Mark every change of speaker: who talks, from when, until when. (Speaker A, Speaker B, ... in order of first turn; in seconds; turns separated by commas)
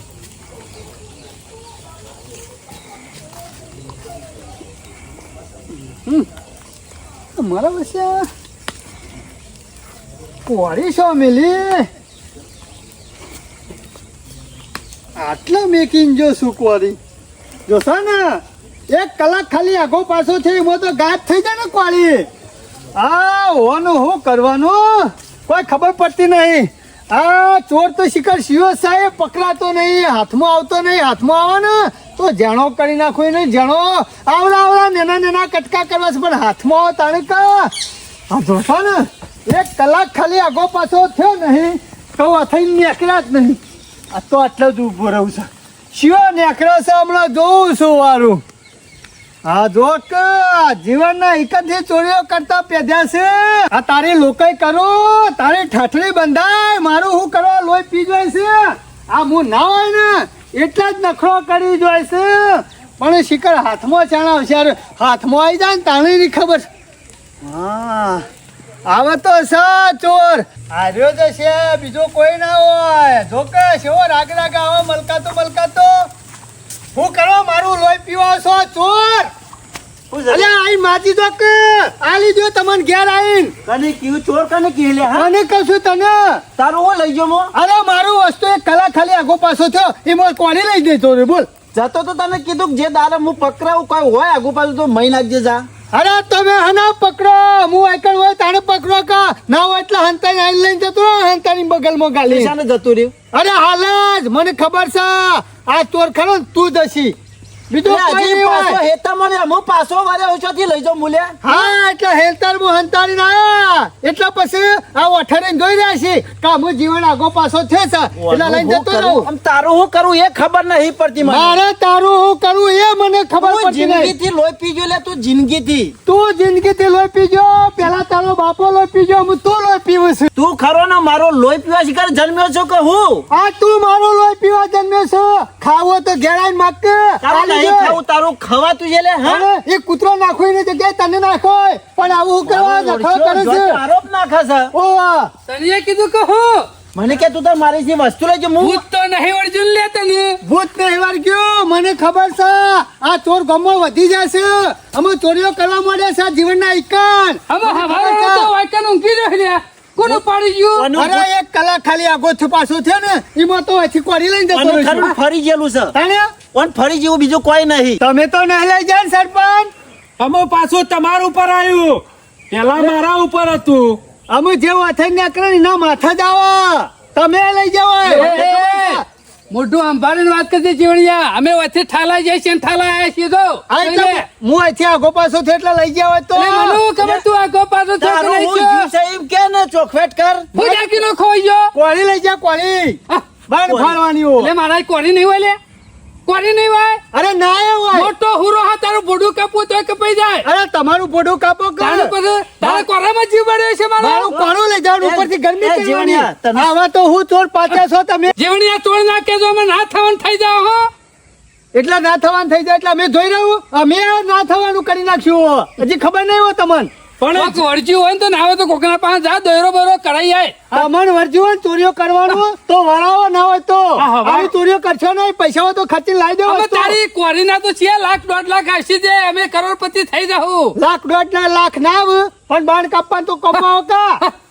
Speaker A: 5.9-6.3, Speaker A: 7.4-8.3, Speaker A: 10.5-11.9, Speaker A: 15.2-17.0, Speaker A: 17.7-22.3, Speaker A: 23.0-37.7, Speaker A: 38.3-43.6, Speaker A: 44.1-48.4, Speaker A: 49.5-66.7, Speaker A: 67.4-68.3, Speaker A: 68.9-76.1, Speaker A: 76.9-79.3, Speaker B: 80.1-80.5, Speaker A: 80.3-83.5, Speaker B: 83.7-85.3, Speaker A: 85.1-86.4, Speaker B: 86.6-87.5, Speaker A: 87.5-91.5, Speaker B: 91.7-95.7, Speaker A: 95.9-102.5, Speaker B: 102.3-103.1, Speaker A: 103.3-107.2, Speaker A: 107.7-108.8, Speaker B: 107.8-111.4, Speaker A: 111.4-119.3, Speaker B: 118.2-121.6, Speaker A: 121.2-124.1, Speaker B: 123.4-126.0, Speaker A: 126.1-130.3, Speaker B: 130.3-133.3, Speaker A: 133.3-138.0, Speaker B: 137.2-139.5, Speaker A: 139.2-143.8, Speaker B: 142.4-144.7, Speaker A: 144.7-145.3, Speaker C: 145.5-146.7, Speaker B: 146.9-148.8, Speaker C: 148.6-150.4, Speaker A: 150.4-158.5, Speaker C: 157.5-160.9, Speaker B: 160.8-161.3, Speaker A: 161.0-165.1, Speaker B: 164.5-165.9, Speaker A: 165.9-166.3, Speaker B: 166.5-168.0, Speaker A: 168.0-169.7, Speaker D: 170.2-174.0, Speaker A: 174.3-179.0, Speaker C: 178.1-184.3, Speaker A: 183.7-186.8, Speaker C: 186.3-188.9, Speaker B: 187.0-187.2, Speaker B: 188.0-190.5, Speaker C: 190.5-191.7, Speaker A: 190.6-190.9, Speaker A: 191.7-194.5, Speaker B: 193.7-194.0, Speaker C: 194.4-195.6, Speaker C: 196.3-197.0, Speaker A: 197.1-198.1, Speaker C: 197.9-200.5, Speaker A: 200.4-202.1, Speaker C: 201.8-204.4, Speaker A: 204.0-208.3, Speaker B: 205.0-206.7, Speaker C: 208.4-210.9, Speaker A: 211.7-216.9, Speaker D: 217.2-217.6, Speaker C: 217.3-220.6, Speaker A: 220.7-227.0, Speaker D: 224.0-224.5, Speaker C: 226.5-230.8, Speaker A: 230.8-234.2